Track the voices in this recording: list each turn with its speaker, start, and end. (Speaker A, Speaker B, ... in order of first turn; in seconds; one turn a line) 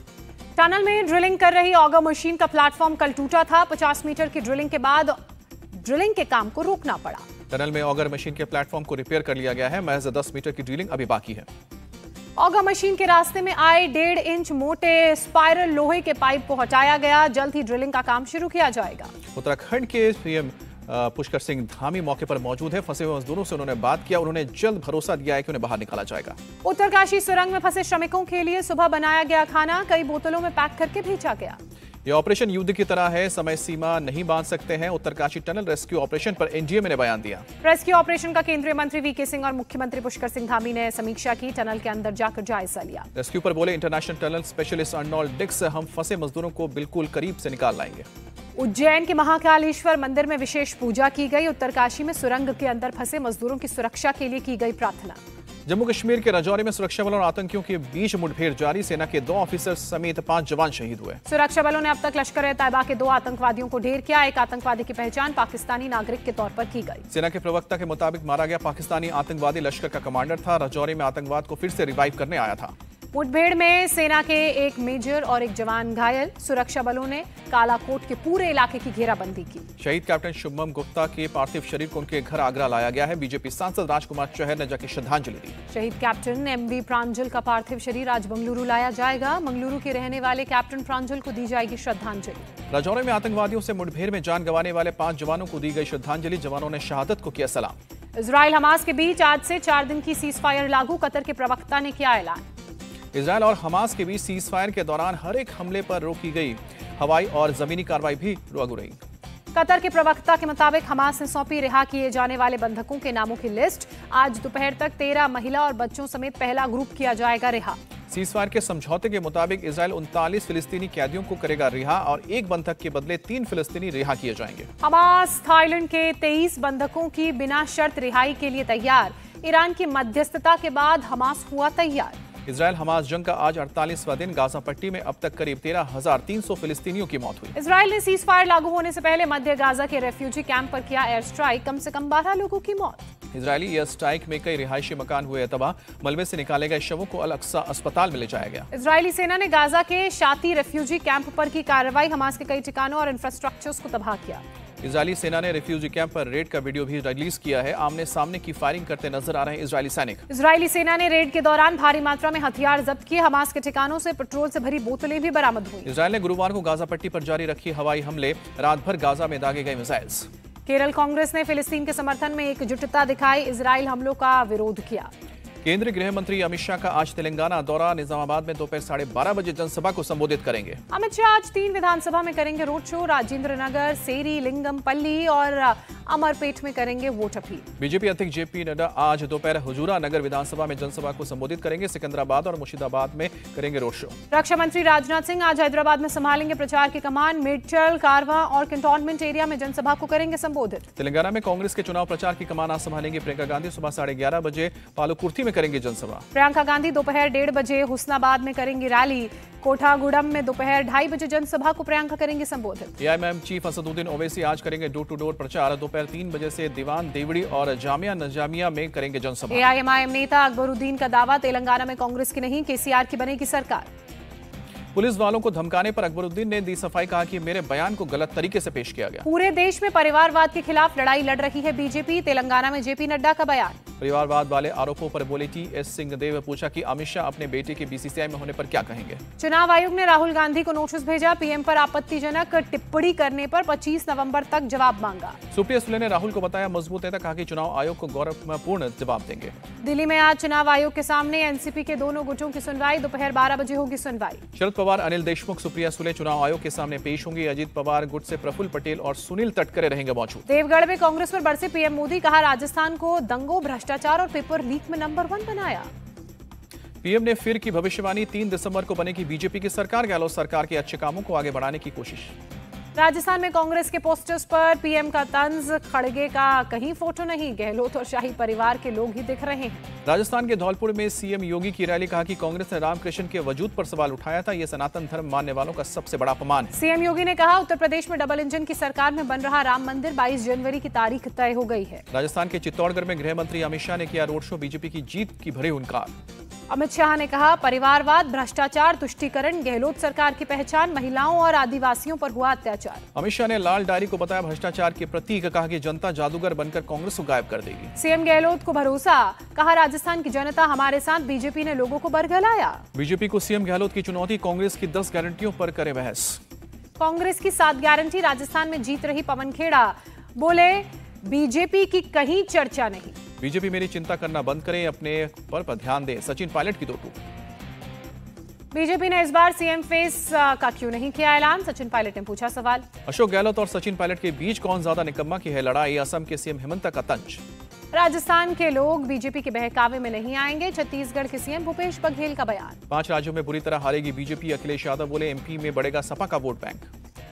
Speaker A: 0.6-5.2
Speaker A: 5.7-7.2
Speaker B: 7.5-11.5
Speaker A: 12.4-19.1
Speaker B: 19.4-26.4
Speaker A: 26.6-31.6
Speaker B: 32.1-37.5
Speaker A: 37.6-43.1
Speaker B: 43.1-48.1
Speaker A: 48.6-55.2
Speaker B: 55.7-61.2
Speaker A: 61.3-67.0
Speaker B: 67.1-72.7
Speaker A: 73.1-79.7
Speaker B: 79.8-85.6
Speaker A: 85.7-92.5
Speaker B: 92.7-97.8
Speaker A: 98.2-102.4
Speaker B: 103.1-109.0
Speaker A: 109.5-117.8
Speaker B: 118.1-124.7
Speaker A: 124.8-132.2
Speaker B: 132.5-137.6
Speaker A: 137.6-143.1
Speaker B: 143.3-148.7
Speaker A: 148.7-154.4
Speaker B: 154.8-160.2
Speaker A: 160.3-165.9
Speaker B: 165.8-170.3
Speaker A: 170.7-175.1
Speaker B: 175.6-180.8
Speaker A: 180.9-187.7
Speaker B: 187.8-194.2
Speaker A: 194.3-200.9
Speaker B: 201.0-206.2
Speaker A: 206.3-212.9
Speaker B: 213.0-219.7
Speaker A: 219.5-223.9
Speaker B: 224.9-229.3
Speaker A: 229.2-233.8
Speaker B: 234.0-239.2
Speaker A: 239.4-245.4
Speaker B: 245.5-249.6
Speaker A: 249.8-254.4
Speaker B: 254.6-260.4
Speaker A: 260.5-265.9
Speaker B: 267.0-272.3
Speaker A: 273.0-279.8
Speaker B: 280.1-286.7
Speaker A: 286.7-292.0
Speaker B: 292.1-296.1
Speaker A: 296.7-303.0
Speaker B: 303.1-307.9
Speaker A: 308.0-312.8
Speaker B: 312.9-316.4
Speaker A: 317.0-323.2
Speaker B: 323.4-327.2
Speaker A: 328.7-332.9
Speaker B: 333.1-337.4
Speaker A: 337.9-342.8
Speaker B: 342.9-346.9